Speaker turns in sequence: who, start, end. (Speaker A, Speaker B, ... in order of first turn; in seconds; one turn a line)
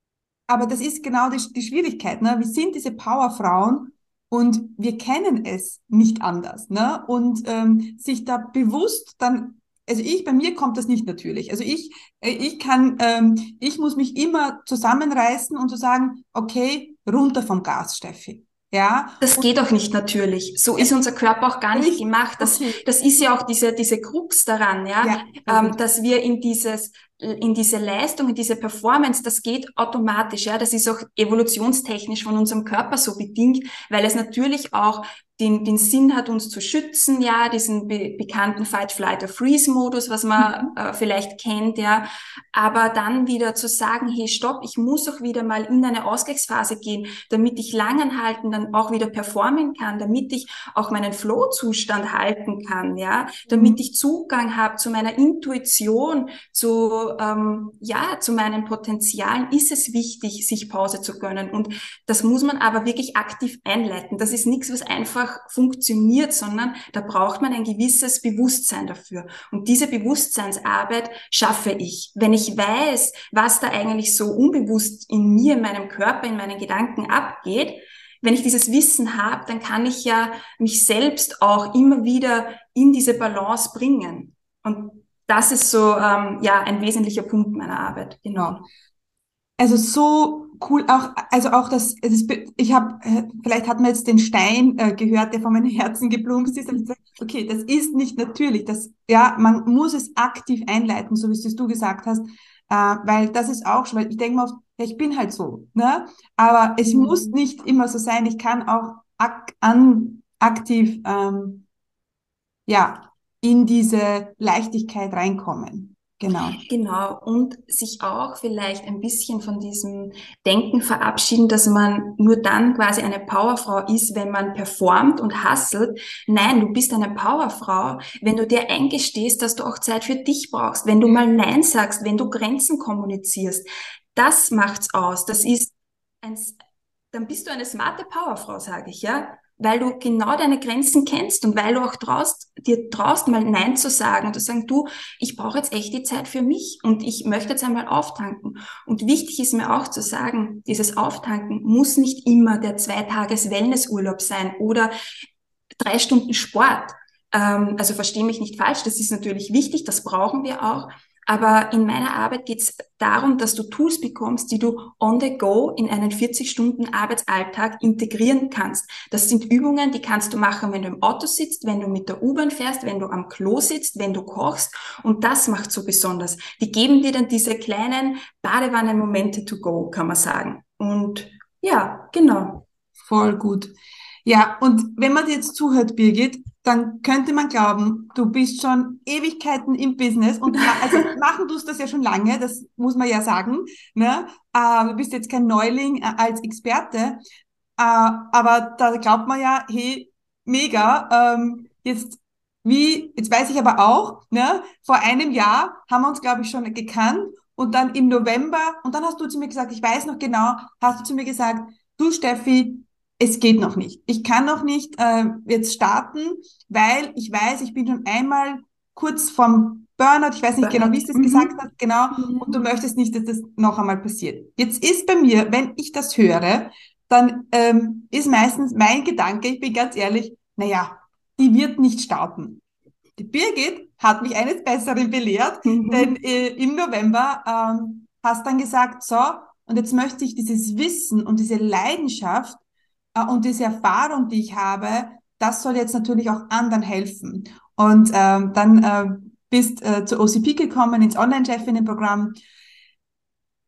Speaker A: 0.5-19.4
Speaker B: 19.2-88.7
Speaker A: 21.7-22.8
Speaker A: 25.0-25.8
Speaker A: 40.4-40.7
Speaker A: 53.5-53.8
Speaker A: 89.6-111.7
Speaker B: 106.8-107.4
Speaker A: 112.7-116.6
Speaker B: 116.7-136.6
Speaker B: 137.1-154.9
Speaker B: 155.8-182.7
Speaker A: 183.1-197.2
Speaker A: 197.8-232.6
Speaker B: 220.6-221.5
Speaker B: 222.2-222.6
Speaker A: 233.2-242.6
Speaker B: 235.7-236.1
Speaker A: 243.2-252.4